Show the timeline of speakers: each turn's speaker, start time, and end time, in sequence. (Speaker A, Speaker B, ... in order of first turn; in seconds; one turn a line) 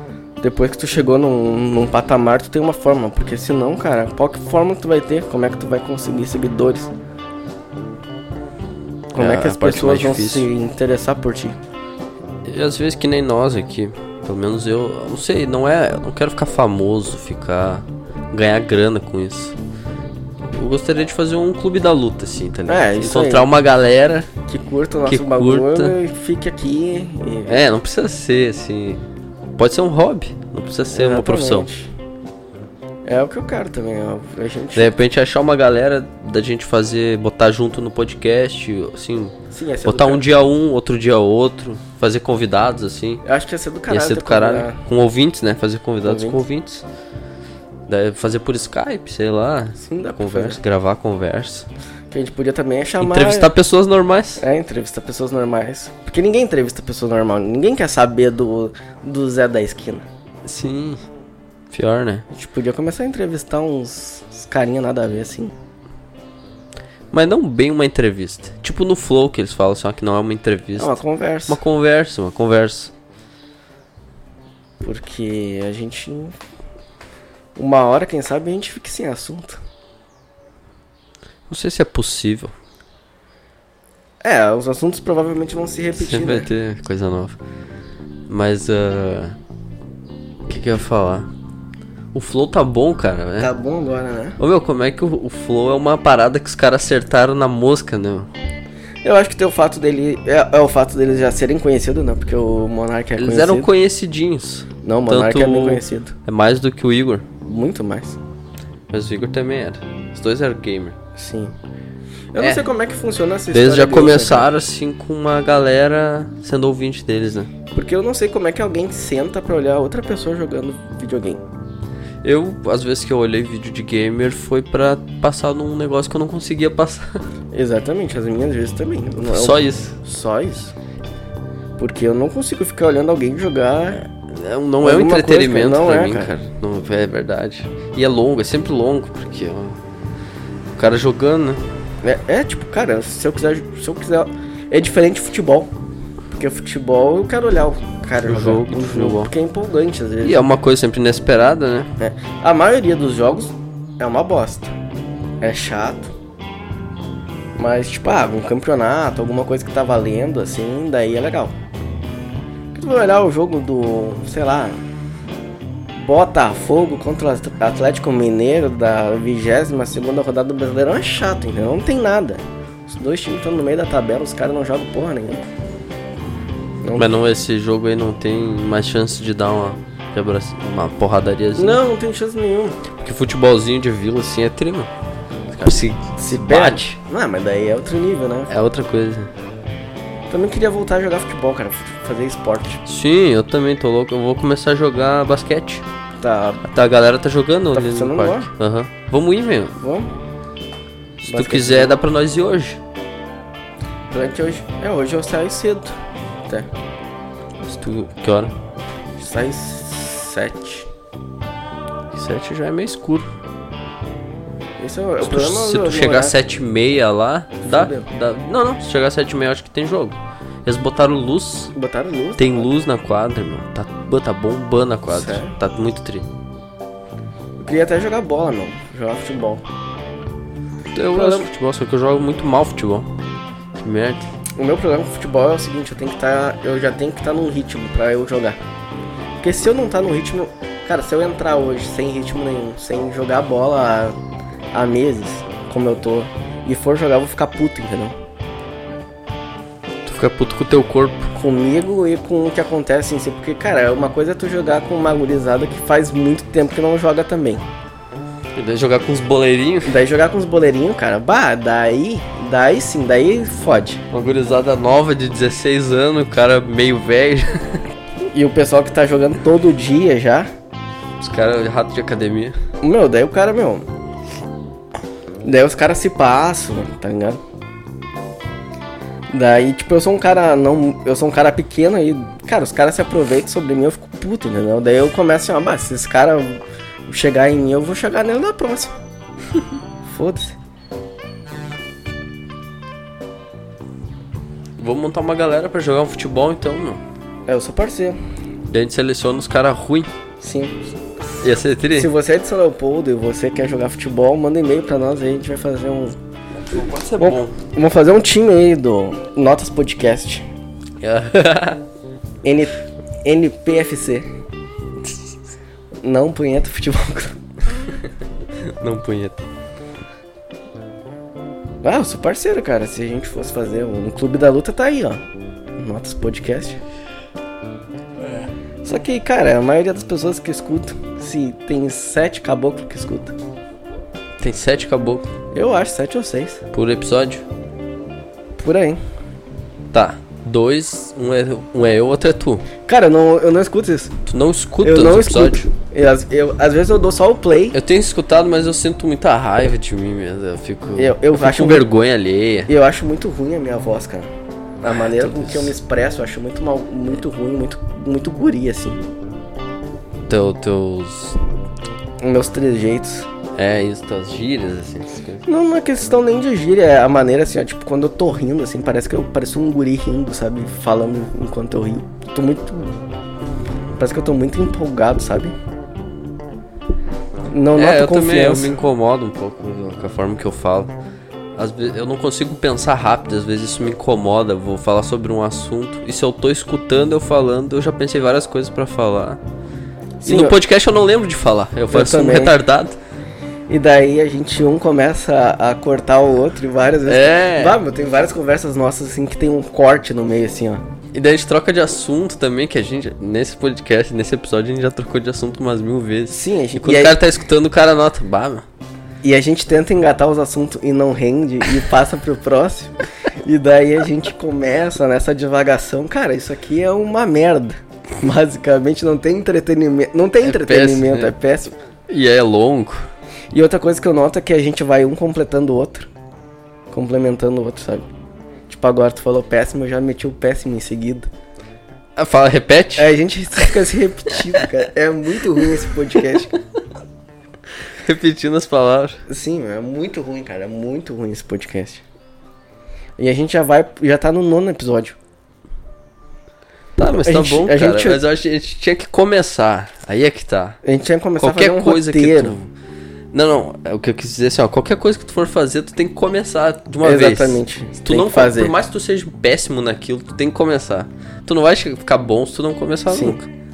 Speaker A: 0.4-6.9
Speaker A: 9.1-11.6
Speaker B: 9.2-10.5
Speaker B: 12.4-19.6
Speaker B: 20.5-24.3
Speaker A: 22.7-23.5
Speaker A: 24.5-27.6
Speaker B: 25.0-25.9
Speaker B: 27.5-29.0
Speaker B: 29.6-31.7
Speaker A: 30.9-31.9
Speaker A: 33.1-34.9
Speaker B: 34.7-43.2
Speaker A: 39.5-40.3
Speaker A: 43.2-44.8
Speaker B: 43.9-46.8
Speaker A: 46.0-46.4
Speaker B: 47.9-51.7
Speaker A: 49.8-50.6
Speaker A: 52.1-53.5
Speaker B: 53.0-54.4
Speaker A: 54.4-60.0
Speaker B: 60.4-61.0
Speaker B: 61.7-62.2
Speaker A: 62.3-65.5
Speaker B: 67.1-72.9
Speaker A: 70.8-71.6
Speaker A: 74.8-76.3
Speaker A: 77.5-79.6
Speaker B: 81.5-82.5
Speaker A: 84.2-86.5
Speaker B: 86.0-87.4
Speaker B: 88.3-89.4
Speaker B: 90.5-91.3
Speaker B: 92.1-93.5
Speaker A: 93.4-94.4
Speaker B: 94.4-98.3
Speaker A: 99.0-103.7
Speaker B: 103.2-107.2
Speaker A: 104.8-106.1
Speaker A: 107.4-108.2
Speaker B: 108.9-111.0
Speaker A: 111.2-111.5
Speaker A: 112.3-114.5
Speaker B: 112.4-112.7
Speaker B: 113.5-117.5
Speaker A: 117.7-121.4
Speaker B: 122.2-127.2
Speaker A: 127.5-130.7
Speaker B: 129.2-129.9
Speaker A: 131.8-134.0
Speaker B: 134.0-139.8
Speaker A: 134.8-136.3
Speaker B: 140.8-141.6
Speaker A: 142.0-145.7
Speaker A: 146.3-150.5
Speaker B: 148.2-149.3
Speaker B: 150.2-151.9
Speaker A: 152.0-154.7
Speaker A: 155.4-156.1
Speaker A: 157.6-161.5
Speaker A: 162.7-164.8
Speaker A: 165.9-175.4
Speaker A: 176.8-177.1
Speaker B: 176.9-181.8
Speaker A: 181.6-182.8
Speaker B: 183.0-184.9
Speaker A: 185.5-188.5
Speaker B: 185.6-187.0
Speaker B: 188.5-189.3
Speaker A: 190.3-192.8
Speaker B: 192.8-195.8
Speaker A: 196.2-196.7
Speaker B: 196.6-199.8
Speaker A: 197.7-198.5
Speaker A: 199.8-200.1
Speaker B: 201.2-202.8
Speaker A: 201.2-202.0
Speaker A: 204.1-205.9
Speaker B: 207.6-208.5
Speaker A: 209.2-210.9
Speaker B: 212.1-213.3
Speaker A: 214.8-216.4
Speaker B: 215.2-221.7
Speaker A: 217.6-218.1
Speaker A: 221.7-222.7
Speaker B: 222.4-226.3
Speaker A: 225.1-225.5
Speaker A: 227.6-229.6
Speaker B: 230.9-233.1
Speaker A: 231.1-231.5
Speaker B: 233.8-234.3
Speaker A: 234.6-238.6
Speaker A: 239.4-244.2
Speaker A: 244.7-248.2
Speaker B: 250.0-251.3
Speaker A: 251.3-257.6
Speaker B: 258.5-260.0
Speaker A: 259.8-264.0
Speaker B: 264.1-267.8
Speaker A: 268.3-270.5
Speaker B: 271.2-272.6
Speaker A: 272.8-273.9
Speaker A: 275.4-277.4
Speaker A: 279.3-288.9
Speaker A: 290.1-290.5
Speaker B: 294.8-297.0
Speaker A: 297.5-298.2
Speaker B: 298.7-300.1
Speaker A: 300.4-300.8
Speaker B: 301.4-302.1
Speaker A: 301.9-306.1
Speaker B: 306.6-307.6
Speaker A: 307.2-310.4
Speaker B: 311.0-311.8
Speaker A: 312.4-314.2
Speaker A: 316.0-317.4
Speaker B: 318.6-319.4
Speaker A: 321.8-325.2
Speaker A: 325.8-326.8
Speaker A: 328.8-333.3
Speaker B: 334.4-335.3
Speaker A: 335.5-336.6
Speaker B: 336.7-337.4
Speaker A: 338.6-339.0
Speaker B: 339.9-342.6
Speaker A: 342.9-344.1
Speaker B: 344.2-345.7
Speaker A: 344.8-347.8
Speaker B: 347.7-352.7
Speaker A: 350.9-351.9
Speaker A: 352.7-354.3
Speaker A: 354.8-359.0
Speaker B: 354.8-355.7
Speaker B: 360.2-361.4
Speaker A: 362.2-363.3
Speaker B: 363.5-365.4
Speaker A: 365.4-372.9
Speaker A: 374.0-375.5
Speaker A: 377.5-378.8
Speaker B: 377.8-380.9
Speaker B: 381.6-389.4
Speaker A: 390.2-390.6
Speaker B: 390.2-393.0
Speaker A: 391.9-392.6
Speaker A: 393.7-400.8
Speaker B: 397.1-397.8
Speaker B: 401.1-408.6
Speaker A: 406.3-407.2
Speaker A: 409.2-421.7
Speaker B: 420.4-421.3
Speaker B: 422.1-423.1
Speaker A: 423.5-426.1
Speaker A: 426.9-428.1
Speaker A: 428.7-431.3
Speaker B: 432.1-433.1
Speaker A: 432.9-436.6
Speaker B: 438.0-439.2
Speaker A: 439.3-442.0
Speaker A: 443.2-445.1
Speaker B: 446.9-450.8
Speaker A: 447.1-448.2
Speaker A: 450.8-452.6
Speaker B: 451.4-452.7
Speaker B: 453.3-463.5
Speaker A: 457.0-458.7
Speaker A: 463.1-463.4